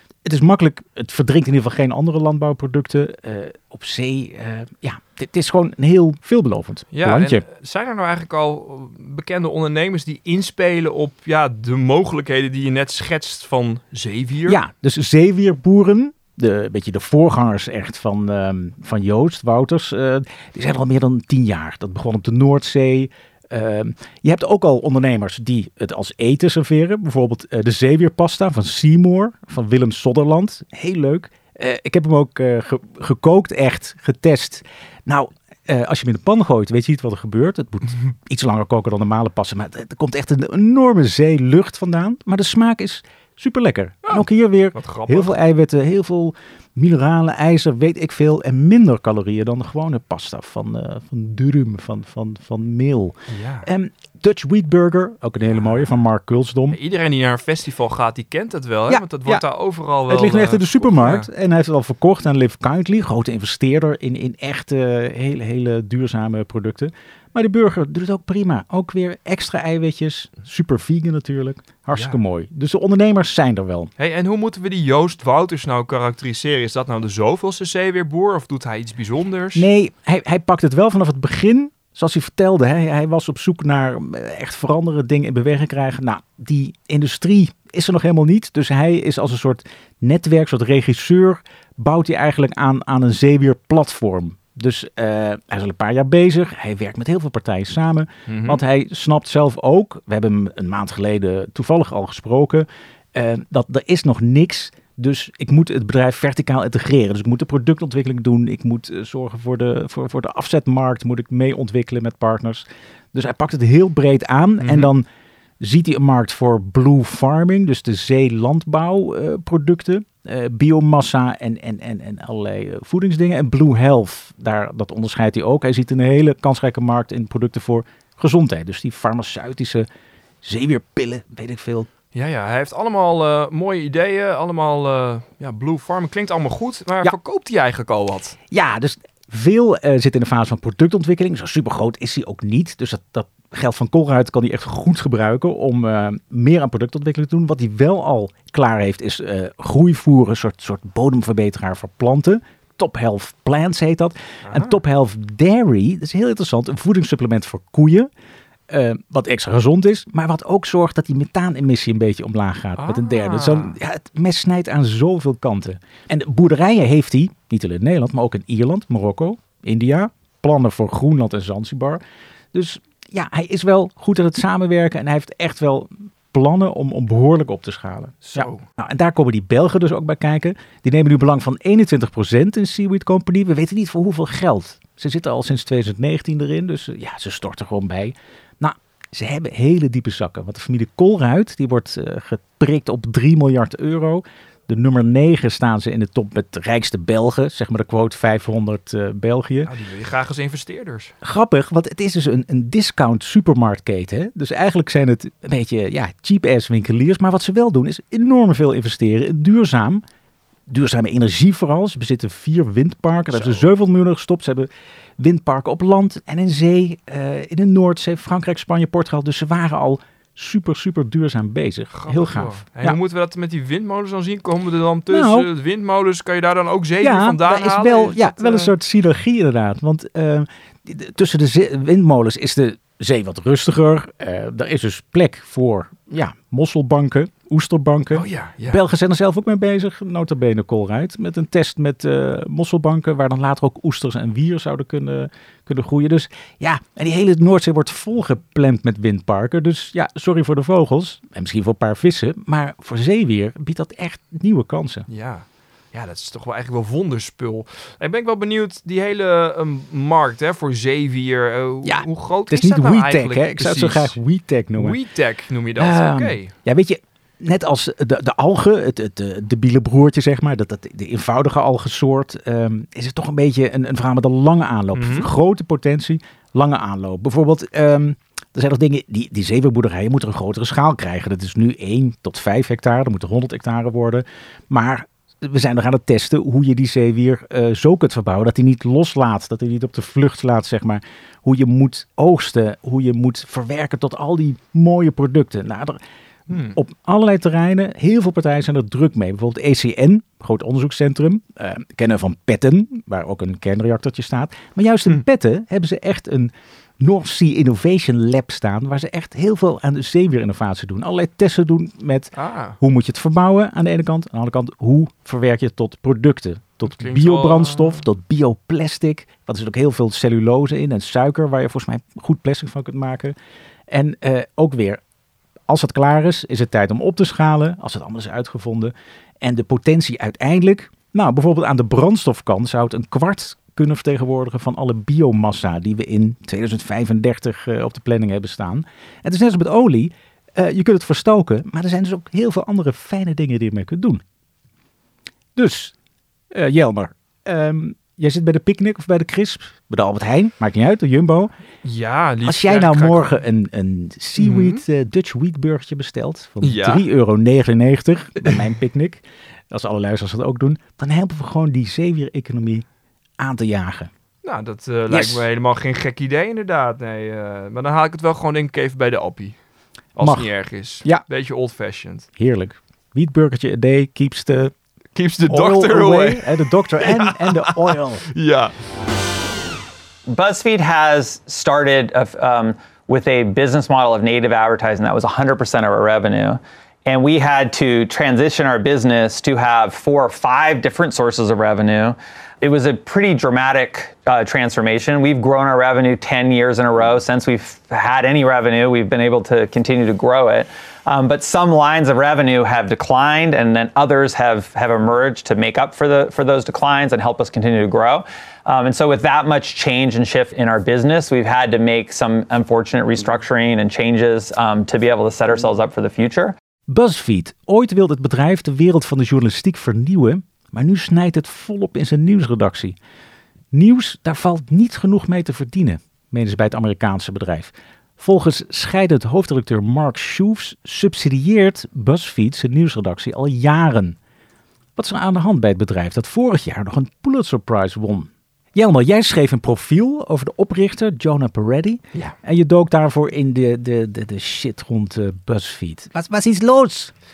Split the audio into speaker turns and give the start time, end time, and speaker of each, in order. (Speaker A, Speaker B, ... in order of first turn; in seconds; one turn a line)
Speaker A: 0.2-7.4
Speaker B: 6.9-14.6
Speaker A: 14.5-56.8
Speaker B: 44.7-45.4
Speaker B: 53.3-53.7
Speaker B: 56.7-61.3
Speaker A: 58.9-59.4
Speaker A: 60.1-73.9
Speaker B: 74.0-79.7
Speaker A: 79.5-115.1
Speaker B: 98.3-98.6
Speaker B: 114.6-114.9
Speaker A: 115.6-129.9
Speaker A: 130.4-131.9
Speaker B: 132.1-138.4
Speaker A: 138.5-158.1
Speaker B: 154.4-154.8
Speaker A: 158.7-172.0
Speaker B: 162.8-163.8
Speaker A: 172.5-199.7
Speaker B: 178.2-178.7
Speaker B: 199.6-201.1
Speaker A: 201.2-210.0
Speaker A: 210.7-223.0
Speaker B: 213.3-213.7
Speaker B: 221.9-228.7
Speaker A: 225.1-225.5
Speaker A: 227.0-255.1
Speaker B: 238.1-238.8
Speaker B: 255.1-264.2
Speaker A: 261.8-265.0
Speaker B: 264.7-266.5
Speaker A: 265.8-296.0
Speaker B: 274.9-275.3
Speaker B: 296.5-296.8
Speaker A: 296.5-323.4
Speaker B: 312.3-312.8
Speaker B: 316.8-318.0
Speaker A: 323.9-325.0
Speaker A: 325.7-344.2
Speaker A: 345.6-345.9
Speaker A: 346.5-351.5
Speaker B: 351.8-353.4
Speaker A: 352.4-362.9
Speaker B: 354.4-354.8
Speaker B: 356.6-357.0
Speaker A: 363.4-364.1
Speaker B: 364.4-369.6
Speaker A: 365.1-365.4
Speaker B: 370.1-372.3
Speaker A: 370.2-371.2
Speaker A: 372.4-374.8
Speaker B: 375.1-378.7
Speaker A: 375.5-378.3
Speaker C: 380.3-416.6
Speaker A: 416.9-423.0
Speaker A: 423.7-434.2
Speaker A: 435.0-447.1